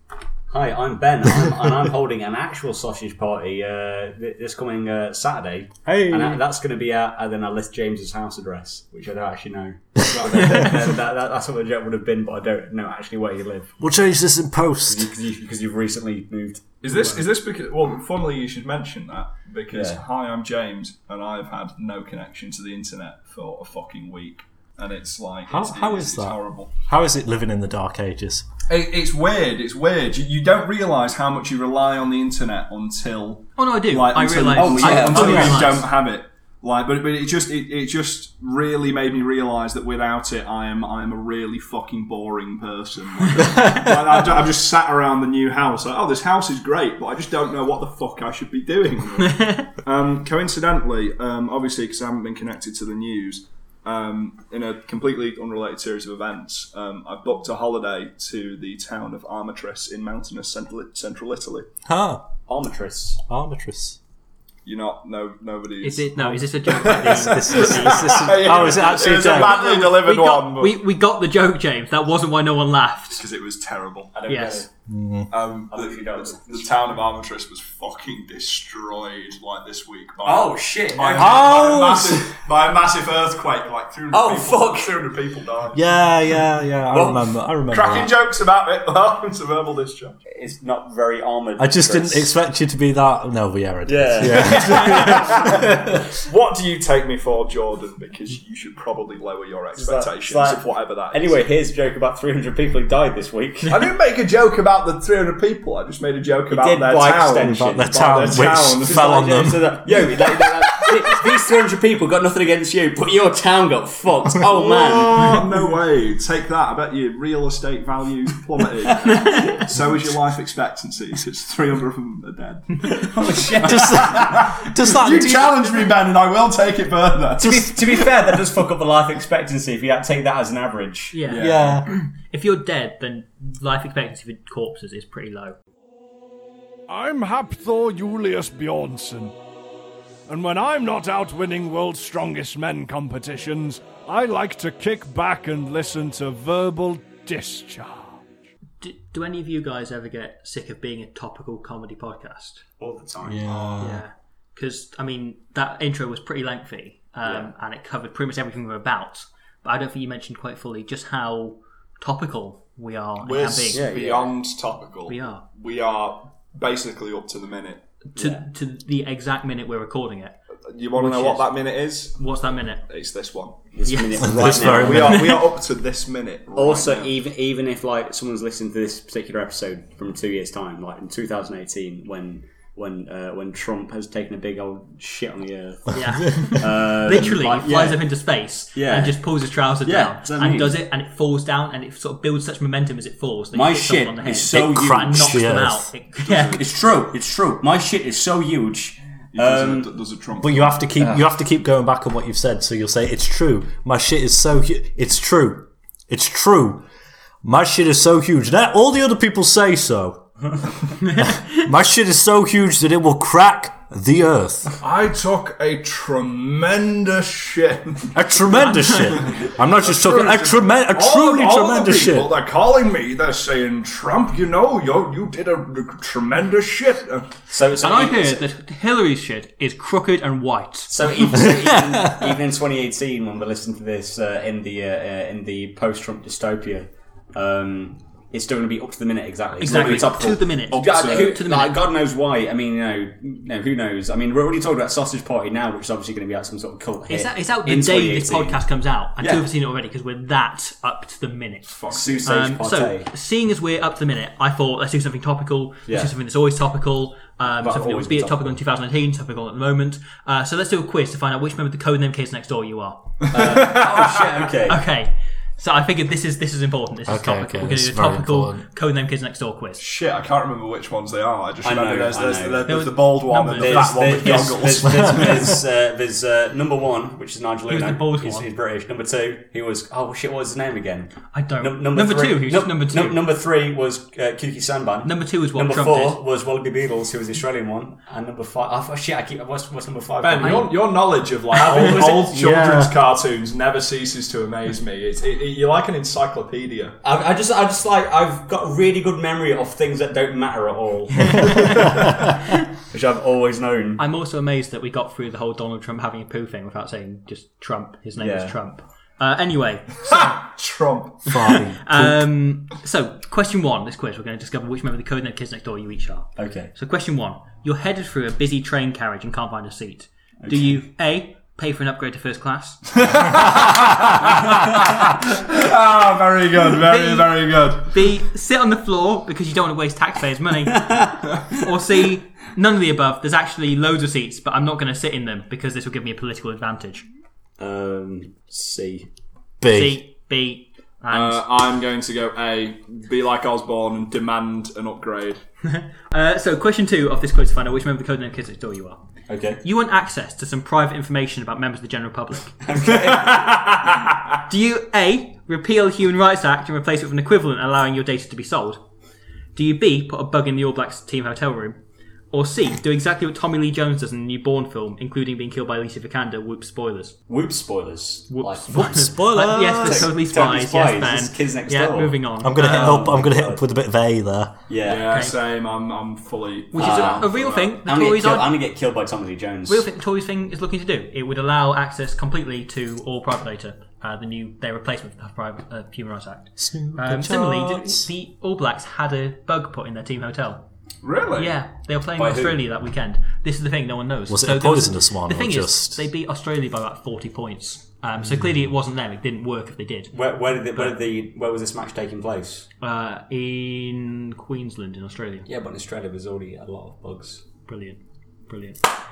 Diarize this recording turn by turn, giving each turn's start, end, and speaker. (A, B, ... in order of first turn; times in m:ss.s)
0:00.5-0:13.9 A
0:05.8-0:06.4 B
0:10.1-0:10.9 C
0:13.8-0:15.1 B
0:14.9-0:17.1 A
0:16.8-0:26.7 C
0:19.7-0:20.0 A
0:25.5-0:28.4 B
0:28.7-1:01.7 C
0:33.6-0:35.9 D
0:34.5-0:35.8 A
0:35.1-0:35.6 B
0:43.4-0:43.9 D
0:49.3-0:49.7 D
1:01.8-1:02.2 B
1:02.5-1:03.2 A
1:03.3-1:04.0 B
1:04.6-1:06.1 C
1:05.8-1:13.2 D
1:06.2-1:09.6 B
1:06.8-1:10.8 C
1:13.1-1:14.1 C
1:14.1-1:14.7 A
1:14.3-1:14.6 D
1:14.9-1:15.3 B
1:15.3-1:25.8 C
1:15.7-1:16.8 A
1:20.2-1:21.8 A
1:21.2-1:22.3 B
1:24.1-1:25.0 A
1:25.7-1:28.1 B
1:26.9-1:27.2 A
1:27.7-1:30.2 C
1:30.3-1:32.3 A
1:31.6-1:36.0 B
1:33.8-1:35.7 A
1:34.2-1:41.4 C
1:39.7-1:43.8 A
1:43.7-1:49.2 C
1:46.5-1:55.4 A
1:47.4-1:50.1 B
1:54.4-2:03.1 C
1:59.0-1:59.6 D
2:02.9-2:04.4 A
2:03.6-2:05.9 B
2:03.7-2:07.8 C
2:07.4-2:11.2 A
2:11.1-2:15.6 D
2:11.2-2:11.8 C
2:11.3-2:11.9 B
2:16.9-2:19.3 E
2:20.3-2:28.1 E
2:28.8-2:32.6 D
2:32.8-2:33.7 A
2:33.2-2:34.0 B
2:33.5-2:33.9 C
2:33.8-2:43.9 D
2:37.2-2:37.5 A
2:43.2-2:47.8 C
2:43.7-2:44.3 A
2:45.1-2:45.4 D
2:48.1-2:50.4 D
2:48.2-2:48.4 A
2:50.7-2:52.2 C
2:50.9-2:51.6 D
2:52.1-2:52.8 D
2:52.9-2:53.6 C
2:53.7-2:55.4 A
2:53.8-2:54.2 D
2:54.2-2:55.5 B
2:54.6-2:57.1 C
2:56.5-3:08.0 A
3:05.9-3:16.6 D
3:06.3-3:06.6 B
3:08.7-3:09.2 A
3:09.8-3:10.8 A
3:13.5-3:15.7 A
3:14.5-3:15.9 B
3:16.2-3:16.8 C
3:16.5-3:19.9 A
3:19.3-3:20.8 C
3:20.4-3:26.8 B
3:21.0-3:21.2 A
3:27.4-3:30.3 B
3:31.0-3:31.6 D
3:31.2-3:34.7 B
3:34.8-3:38.1 C
3:38.1-3:42.3 B
3:38.5-3:39.3 D
3:39.2-3:47.3 C
3:47.5-3:48.4 A
3:47.8-3:51.1 D
3:50.9-4:08.6 A
3:51.5-3:52.3 B
3:59.6-4:01.4 C
3:59.6-4:01.8 D
4:07.1-4:23.1 D
4:09.2-4:09.5 A
4:11.7-4:12.2 C
4:11.9-4:13.1 A
4:17.6-4:18.6 A
4:23.3-4:24.5 C
4:23.3-4:24.8 A
4:24.7-4:29.8 D
4:27.1-4:28.6 B
4:29.8-4:35.6 C
4:31.6-4:32.8 A
4:32.7-4:34.5 D
4:33.5-4:50.8 A
4:34.8-4:35.3 B
4:37.7-4:38.5 D
4:41.3-4:43.2 D
4:45.0-4:46.2 D
4:50.2-4:57.0 C
4:50.4-4:50.8 D
4:51.5-4:52.9 A
4:51.7-4:51.9 D
4:57.0-5:02.1 A
5:01.4-5:01.6 D
5:02.9-5:04.0 A
5:04.0-5:10.1 D
5:08.2-5:08.6 A
5:10.0-5:11.4 C
5:11.2-5:12.2 B
5:11.8-5:22.8 D
5:16.4-5:16.7 A
5:20.4-5:20.8 A
5:23.1-5:28.0 C
5:26.8-5:37.0 D
5:30.7-5:31.1 A
5:37.6-5:39.1 A
5:39.6-5:40.0 B
5:39.6-5:41.4 D
5:41.1-5:45.4 C
5:45.6-5:49.0 D
5:49.3-5:49.6 A
5:49.6-5:52.6 D
5:52.6-5:54.1 A
5:53.0-5:53.8 C
5:54.5-5:58.8 D
5:59.5-6:01.8 D
6:02.3-6:07.1 D
6:07.3-6:13.6 A
6:08.3-6:13.0 D
6:08.7-6:10.1 B
6:12.4-6:14.6 B
6:14.7-6:15.2 A
6:14.8-6:17.7 C
6:15.1-6:15.4 D
6:16.7-6:18.6 D
6:16.8-6:19.8 A
6:19.7-6:30.6 D
6:26.6-6:28.1 B
6:31.0-6:31.5 C
6:31.4-6:40.1 D
6:32.2-6:32.6 A
6:34.3-6:36.0 B
6:40.1-6:42.7 A
6:42.8-6:45.5 D
6:45.5-6:47.4 A
6:47.7-6:48.8 D